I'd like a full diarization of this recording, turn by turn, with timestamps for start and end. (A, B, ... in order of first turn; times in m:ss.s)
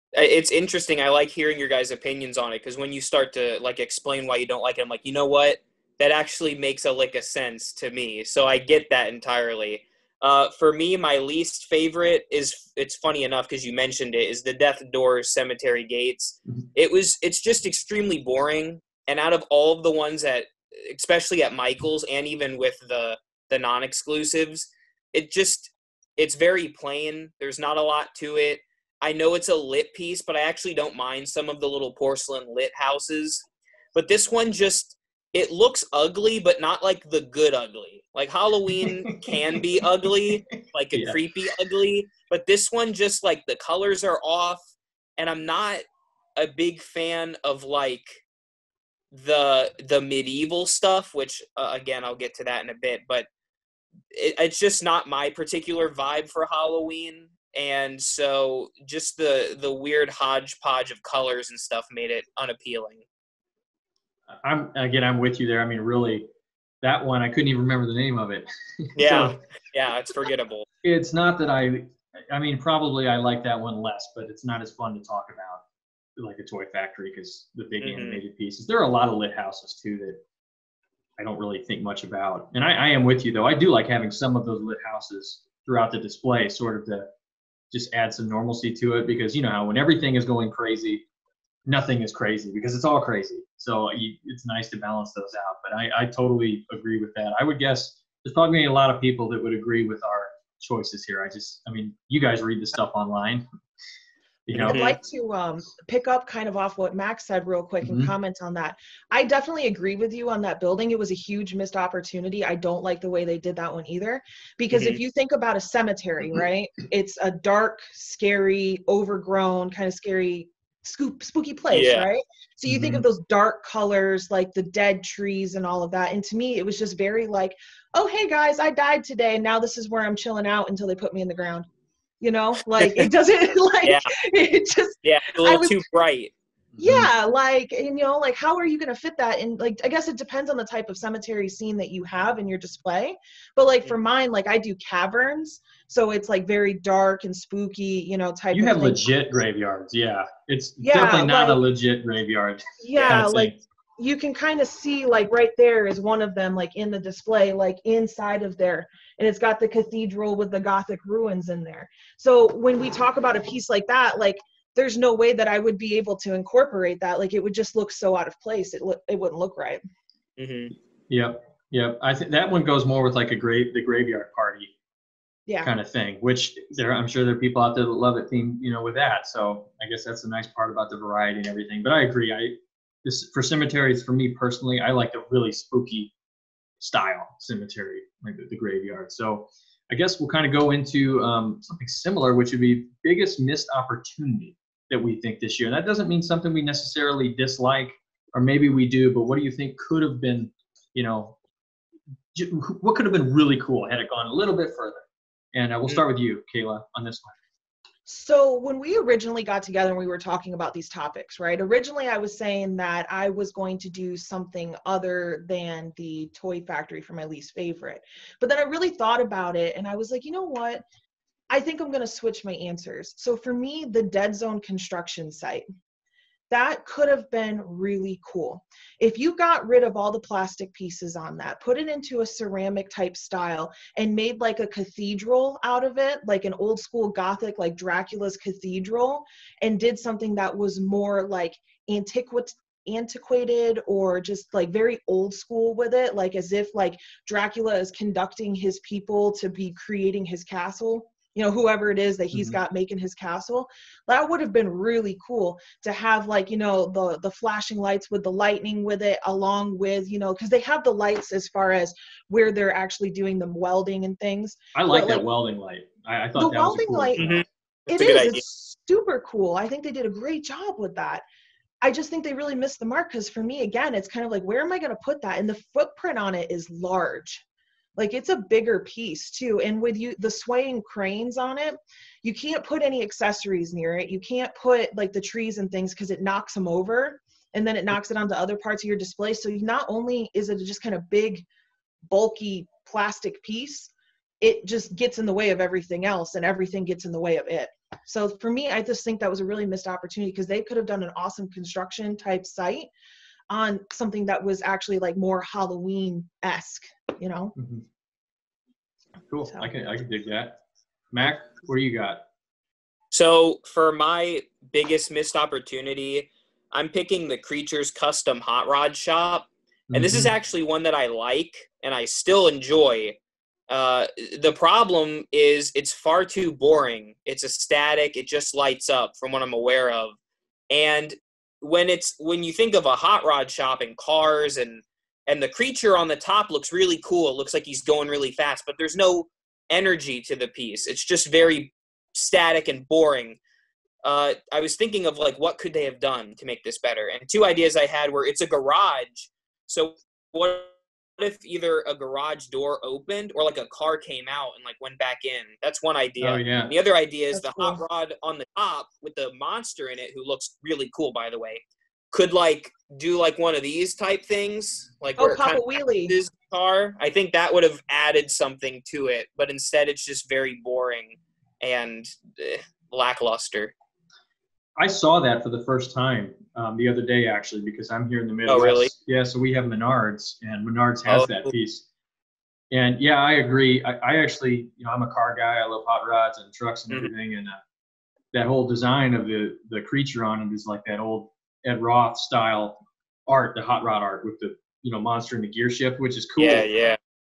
0:00.1-0:33.4 A
0:34.0-0:44.6 A
0:38.7-0:40.1 B
0:40.9-0:41.2 B
0:45.2-0:45.8 A
0:46.4-0:48.2 A
0:49.1-0:53.3 A
0:54.1-1:03.0 A
1:04.3-1:06.3 B
1:06.8-1:09.4 B
1:09.0-1:10.7 A
1:10.8-1:15.6 B
1:16.2-1:20.2 B
1:17.8-1:18.2 A
1:21.2-1:27.1 B
1:27.7-1:31.0 B
1:31.7-1:43.4 B
1:44.5-1:44.8 B
1:44.6-2:11.7 C
1:44.6-1:45.0 A
1:47.8-1:48.1 B
1:54.7-1:55.0 A
2:01.7-2:02.1 A
2:02.7-2:03.0 B
2:12.2-2:15.8 C
2:13.8-2:14.1 A
2:15.0-2:16.3 A
2:16.8-2:17.1 B
2:16.8-2:29.0 C
2:28.5-2:33.6 B
2:30.8-2:31.6 C
2:32.8-2:49.8 C
2:50.4-2:50.8 A
2:51.1-2:54.7 B
2:55.5-2:55.7 C
2:55.6-3:06.1 B
3:06.8-3:21.4 B
3:22.3-3:27.4 B
3:28.1-3:40.8 C
3:41.5-3:45.7 C
3:46.5-4:25.2 C
4:12.3-4:12.6 B
4:24.7-4:27.4 B
4:26.4-4:31.2 C
4:27.2-4:28.4 A
4:31.8-4:37.4 C
4:38.0-4:51.4 C
4:52.1-5:02.9 C
5:03.5-5:07.6 C
5:07.6-5:07.8 B
5:09.3-5:10.6 B
5:11.1-5:12.2 B
5:13.1-5:23.2 A
5:19.9-5:20.3 B
5:23.7-5:30.2 A
5:30.7-5:43.4 A
5:44.0-6:13.7 A
5:56.2-5:56.7 B
5:57.3-5:57.8 C
6:05.2-6:06.2 C
6:14.8-6:21.9 B
6:18.5-6:18.9 A
6:21.1-6:21.4 A
6:22.7-6:27.6 B
6:28.3-6:36.7 B
6:36.4-6:37.0 A